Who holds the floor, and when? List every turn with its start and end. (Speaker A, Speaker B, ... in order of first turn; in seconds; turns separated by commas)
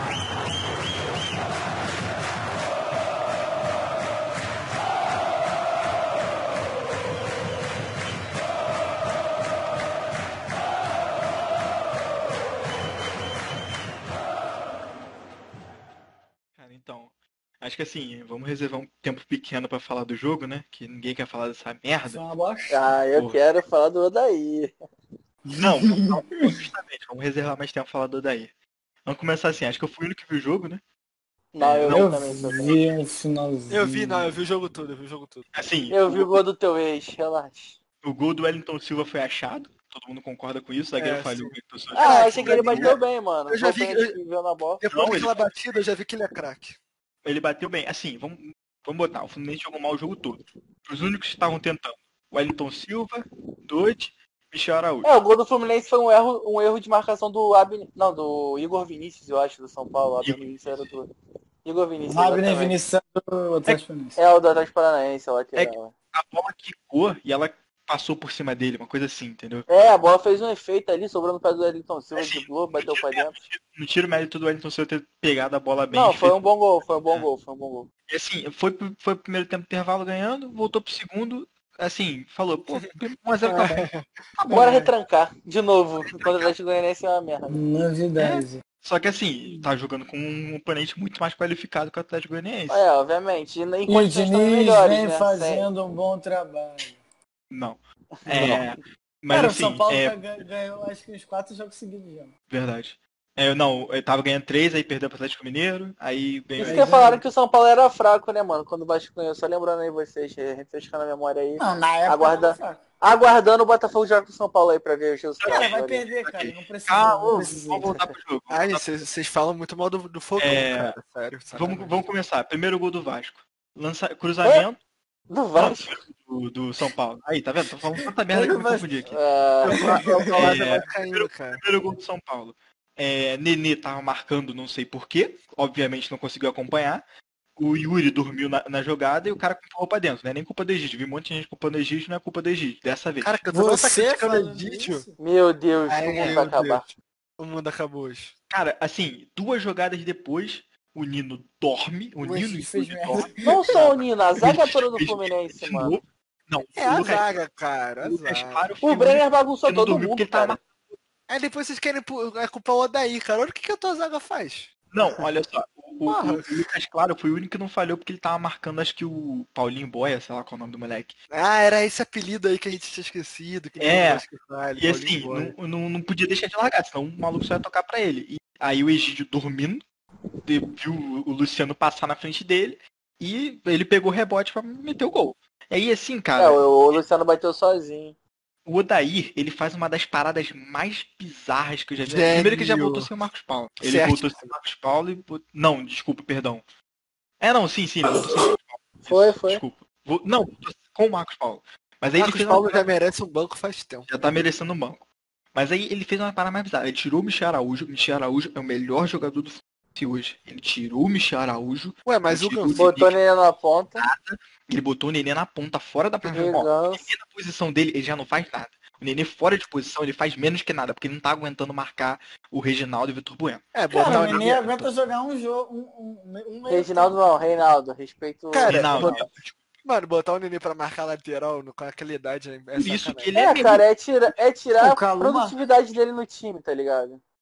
Speaker A: 16.6-22.2, Speaker B: 22.1-22.8, Speaker C: 22.7-24.7, Speaker A: 23.1-23.4, Speaker B: 25.5-26.6, Speaker A: 25.6-28.5, Speaker A: 29.0-30.8, Speaker C: 31.5-32.8, Speaker A: 31.6-32.1, Speaker B: 31.9-34.3, Speaker D: 33.7-35.5, Speaker A: 35.5-36.4, Speaker C: 35.9-37.8, Speaker A: 38.0-43.0, Speaker D: 41.0-44.2, Speaker C: 41.9-44.8, Speaker D: 44.8-46.8, Speaker A: 44.9-45.4, Speaker A: 47.2-55.1, Speaker C: 55.0-61.1, Speaker A: 60.2-60.9, Speaker C: 61.6-62.8, Speaker B: 62.1-64.2, Speaker C: 64.2-65.9, Speaker A: 65.5-69.7, Speaker C: 69.7-73.4, Speaker A: 72.2-76.3, Speaker C: 75.9-77.9, Speaker A: 78.1-84.8, Speaker B: 83.5-83.8, Speaker D: 83.7-84.0, Speaker B: 84.5-84.9, Speaker C: 84.5-87.6, Speaker A: 86.1-86.5, Speaker B: 87.5-88.6, Speaker A: 88.2-92.8, Speaker C: 92.7-95.7, Speaker B: 93.9-97.0, Speaker A: 97.5-100.2, Speaker C: 98.2-98.6, Speaker D: 98.3-98.6, Speaker B: 99.3-102.3, Speaker A: 102.5-107.0, Speaker B: 106.6-107.2, Speaker C: 106.6-116.1, Speaker B: 111.6-112.8, Speaker A: 115.4-118.8, Speaker B: 115.5-118.0, Speaker D: 118.5-122.0, Speaker A: 120.4-121.0, Speaker A: 121.5-124.8, Speaker C: 125.3-126.0, Speaker A: 125.5-129.2, Speaker B: 128.3-128.9, Speaker C: 129.1-129.8, Speaker D: 129.6-131.6, Speaker B: 129.9-130.4, Speaker A: 130.0-137.0, Speaker A: 137.6-143.4, Speaker D: 143.2-145.1, Speaker B: 143.5-145.2, Speaker C: 145.2-146.9, Speaker D: 145.9-148.3, Speaker A: 148.5-157.4, Speaker B: 152.2-153.5, Speaker C: 153.4-156.0, Speaker D: 156.8-158.7, Speaker A: 158.0-161.0, Speaker C: 158.8-160.6, Speaker D: 161.3-164.7, Speaker A: 164.9-171.2, Speaker D: 166.1-166.7, Speaker D: 171.3-175.5, Speaker A: 173.8-174.2, Speaker A: 174.8-179.8, Speaker A: 180.4-186.7, Speaker C: 186.4-188.2, Speaker A: 188.7-196.6, Speaker D: 192.1-193.1, Speaker D: 193.8-194.5, Speaker A: 197.4-202.8, Speaker C: 199.0-199.6, Speaker D: 202.2-204.1, Speaker A: 204.1-213.2, Speaker D: 212.1-212.8, Speaker C: 212.7-214.1, Speaker A: 214.0-224.6, Speaker C: 216.3-217.1, Speaker D: 223.7-224.9, Speaker B: 223.9-227.2, Speaker C: 226.7-229.2, Speaker D: 228.5-229.3, Speaker A: 228.7-229.6, Speaker D: 229.8-233.3, Speaker A: 232.8-233.9, Speaker C: 233.3-237.2, Speaker B: 234.8-235.6